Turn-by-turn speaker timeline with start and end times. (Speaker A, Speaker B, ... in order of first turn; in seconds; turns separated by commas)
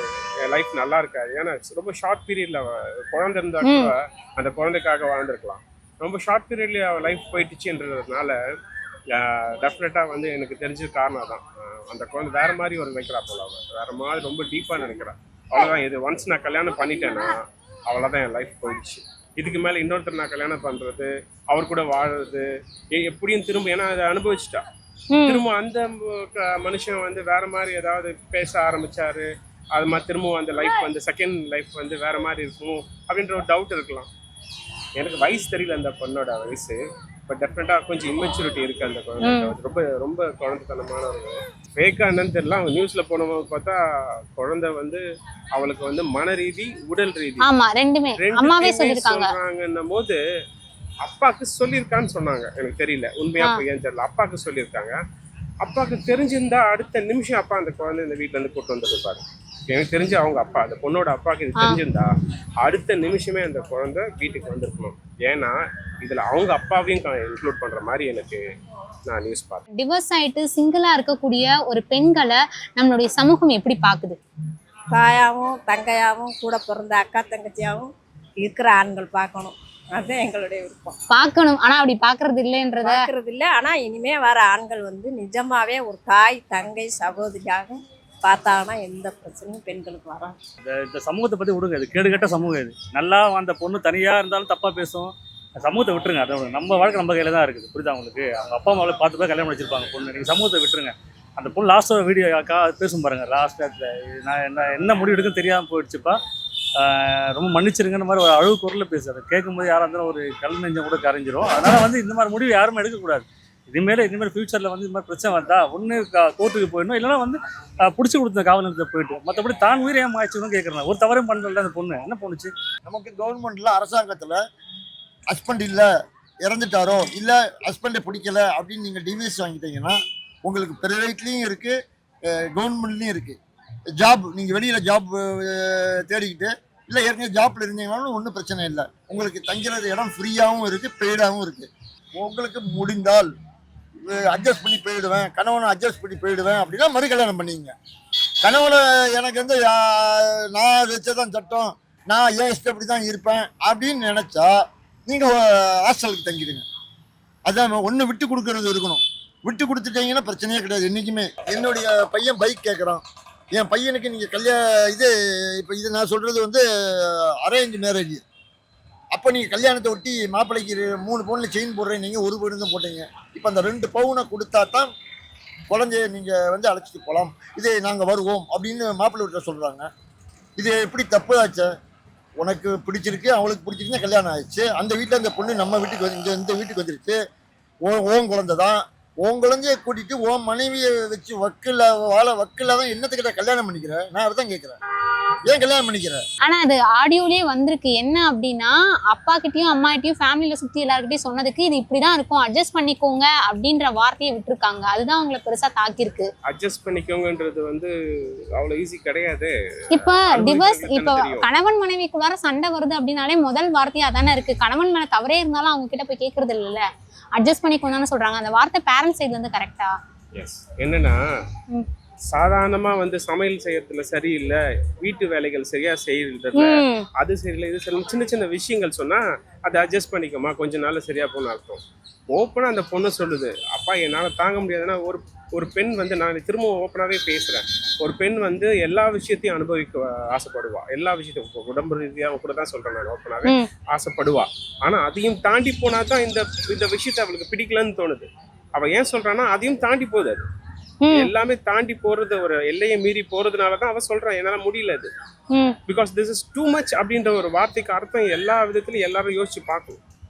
Speaker A: 0.4-8.4, Speaker B: 3.6-3.9, Speaker A: 9.1-24.6, Speaker B: 25.1-25.4, Speaker A: 25.2-34.1, Speaker A: 35.0-47.5, Speaker B: 39.2-39.5, Speaker B: 47.4-49.3, Speaker A: 48.2-50.2, Speaker A: 51.0-55.0, Speaker A: 55.6-68.4, Speaker A: 69.1-69.6, Speaker B: 69.8-74.2, Speaker C: 74.9-81.0, Speaker B: 81.1-83.1, Speaker C: 82.8-90.4, Speaker D: 90.6-106.2, Speaker D: 106.8-122.5, Speaker E: 122.9-124.4, Speaker E: 125.3-125.9, Speaker E: 126.5-131.8, Speaker E: 132.3-133.4, Speaker E: 134.0-143.3, Speaker E: 144.1-147.7, Speaker E: 148.4-154.5, Speaker E: 155.1-156.7, Speaker E: 157.5-168.2, Speaker E: 169.1-174.9, Speaker E: 175.7-179.9, Speaker E: 180.6-181.7, Speaker E: 182.4-187.2, Speaker E: 187.9-194.8, Speaker E: 195.5-196.2, Speaker B: 196.4-206.3, Speaker A: 206.5-211.5, Speaker B: 209.9-220.0, Speaker A: 220.3-221.2, Speaker A: 222.3-250.5, Speaker B: 226.6-227.1, Speaker B: 251.0-251.3, Speaker A: 251.1-255.1, Speaker A: 255.9-260.0